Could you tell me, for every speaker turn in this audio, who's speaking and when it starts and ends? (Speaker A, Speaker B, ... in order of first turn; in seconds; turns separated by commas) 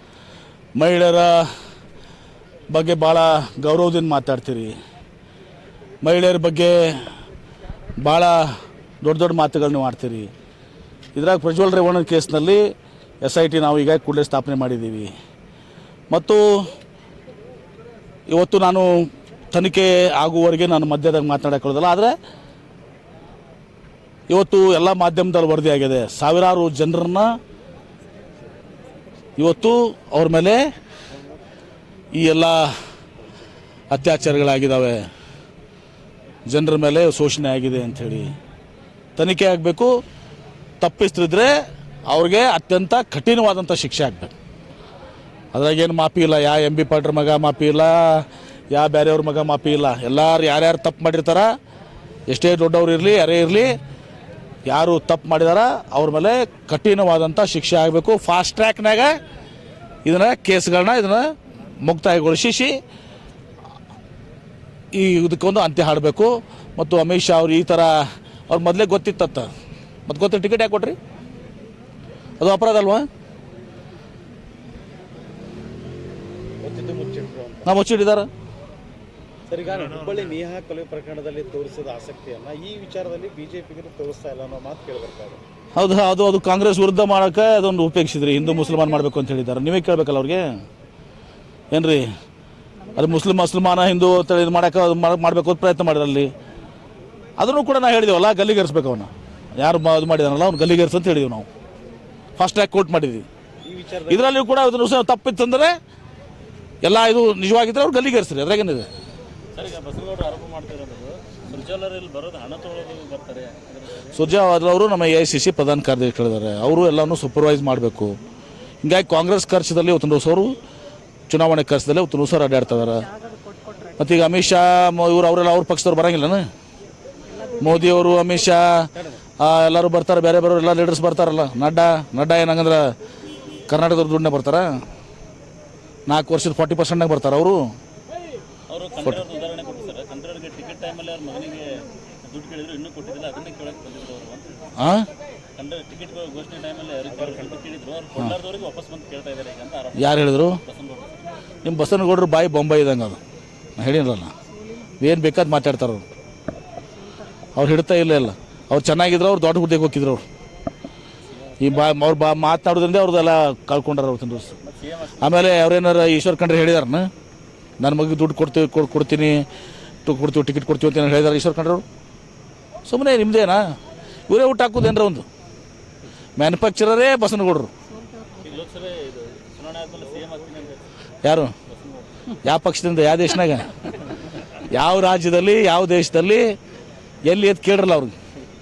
Speaker A: 0.8-1.5, Speaker A: 2.7-4.7, Speaker A: 6.0-7.1, Speaker A: 8.0-10.3, Speaker A: 11.1-12.7, Speaker A: 13.2-15.1, Speaker A: 16.1-16.7, Speaker A: 18.3-22.1, Speaker A: 24.3-27.4, Speaker A: 29.4-30.6, Speaker A: 32.1-32.7, Speaker A: 33.9-35.0, Speaker A: 36.5-38.3, Speaker A: 39.1-39.9, Speaker A: 40.8-41.5, Speaker A: 42.1-44.3, Speaker A: 45.5-51.5, Speaker A: 52.3-53.8, Speaker A: 54.7-59.2, Speaker A: 60.0-62.8, Speaker A: 64.9-69.5, Speaker A: 70.1-71.0, Speaker A: 72.4-73.1, Speaker B: 76.6-77.7, Speaker A: 77.7-78.3, Speaker B: 79.5-85.4, Speaker C: 79.9-80.1, Speaker A: 85.8-90.5, Speaker A: 91.7-92.1, Speaker A: 92.9-96.3, Speaker A: 97.4-101.5, Speaker A: 102.4-103.2, Speaker B: 103.7-104.3, Speaker A: 104.1-105.8, Speaker A: 106.8-108.9, Speaker C: 109.5-114.3, Speaker A: 114.1-118.1, Speaker A: 118.8-120.6, Speaker A: 121.3-123.1, Speaker A: 124.0-126.5, Speaker A: 127.5-132.9, Speaker A: 133.7-134.8, Speaker A: 136.1-137.7, Speaker C: 138.7-144.7, Speaker A: 144.8-145.1, Speaker C: 145.6-151.4, Speaker A: 149.9-150.6, Speaker A: 151.6-153.2, Speaker A: 153.8-154.3, Speaker A: 155.0-156.0, Speaker A: 157.5-160.2, Speaker C: 161.3-161.8, Speaker A: 161.6-164.6, Speaker C: 164.6-165.4, Speaker A: 165.2-167.1, Speaker A: 167.8-169.4, Speaker A: 170.1-171.8, Speaker A: 172.8-173.8, Speaker A: 174.3-175.2, Speaker A: 176.4-177.7, Speaker C: 178.3-180.9, Speaker A: 181.2-181.5, Speaker C: 181.7-182.4, Speaker A: 182.3-184.0, Speaker A: 184.5-186.6, Speaker A: 187.2-188.1